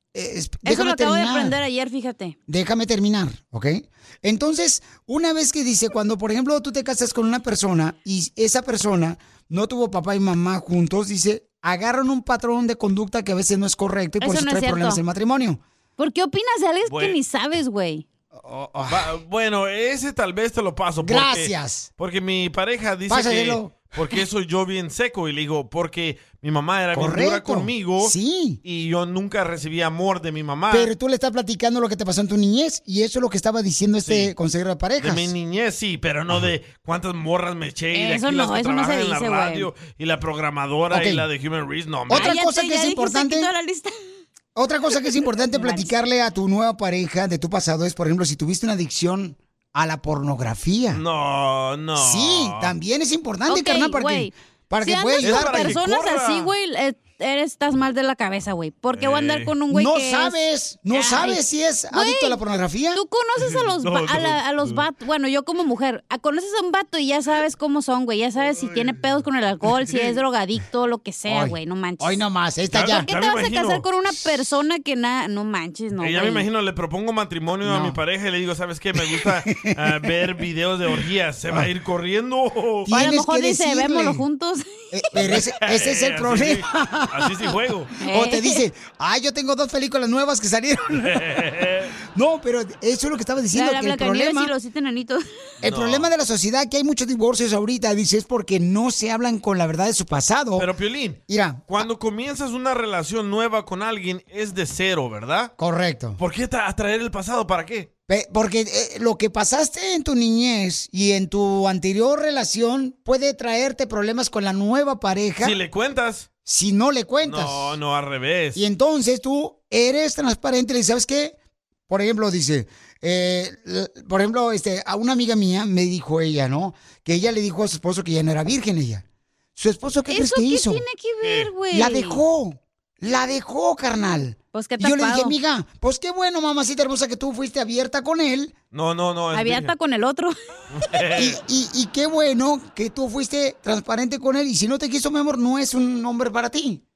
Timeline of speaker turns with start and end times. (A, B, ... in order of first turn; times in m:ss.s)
0:00.1-0:01.6 A
0:00.6-0:02.4 B
0:02.5-0:15.6 A
0:14.2-0:15.0 B
0:16.0-0:18.0 B
0:16.9-0:17.2 C
0:18.4-0:19.1 A
0:18.9-0:30.9 C
0:21.0-0:21.9 A
0:23.1-0:23.8 A
0:26.9-0:28.6 A
0:30.7-0:35.3 A
0:34.0-0:34.3 C
0:35.0-0:42.4 C
0:37.9-0:39.7 B
0:40.9-0:41.3 A
0:42.1-0:43.5 A
0:42.1-0:43.9 B
0:44.6-0:51.0 A
0:45.5-0:45.9 B
0:50.9-0:52.7 C
0:52.0-0:55.8 A
0:53.5-1:01.4 B
0:55.2-0:56.5 C
0:58.9-0:59.6 C
0:59.7-1:03.0 A
1:01.9-1:02.4 B
1:02.9-1:12.2 B
1:03.4-1:04.9 C
1:08.4-1:09.2 C
1:09.8-1:10.1 C
1:11.3-1:13.1 A
1:12.7-1:13.9 C
1:12.8-1:16.4 B
1:16.0-1:22.9 C
1:17.6-1:18.0 A
1:19.0-1:19.8 A
1:22.9-1:24.2 A
1:22.9-1:24.6 B
1:24.9-1:27.4 A
1:25.2-1:27.9 C
1:28.0-1:28.6 B
1:28.0-1:31.3 A
1:31.0-1:31.9 C
1:32.1-1:34.5 A
1:33.5-1:35.2 B
1:35.6-1:40.7 A
1:35.6-1:36.1 C
1:40.6-1:45.5 C
1:41.3-1:41.8 A
1:45.6-1:46.2 A
1:46.2-1:47.9 C
1:48.1-1:55.6 A
1:55.4-1:56.3 C
1:56.4-1:57.8 A
1:57.2-1:58.6 C
1:58.6-2:01.4 A
2:01.9-2:09.0 A
2:09.6-2:10.8 A
2:10.1-2:12.2 B
2:11.2-2:11.5 C
2:11.7-2:18.5 A
2:14.5-2:15.4 B
2:18.7-2:19.7 C
2:19.3-2:20.3 B
2:20.7-2:21.4 C
2:21.2-2:26.8 A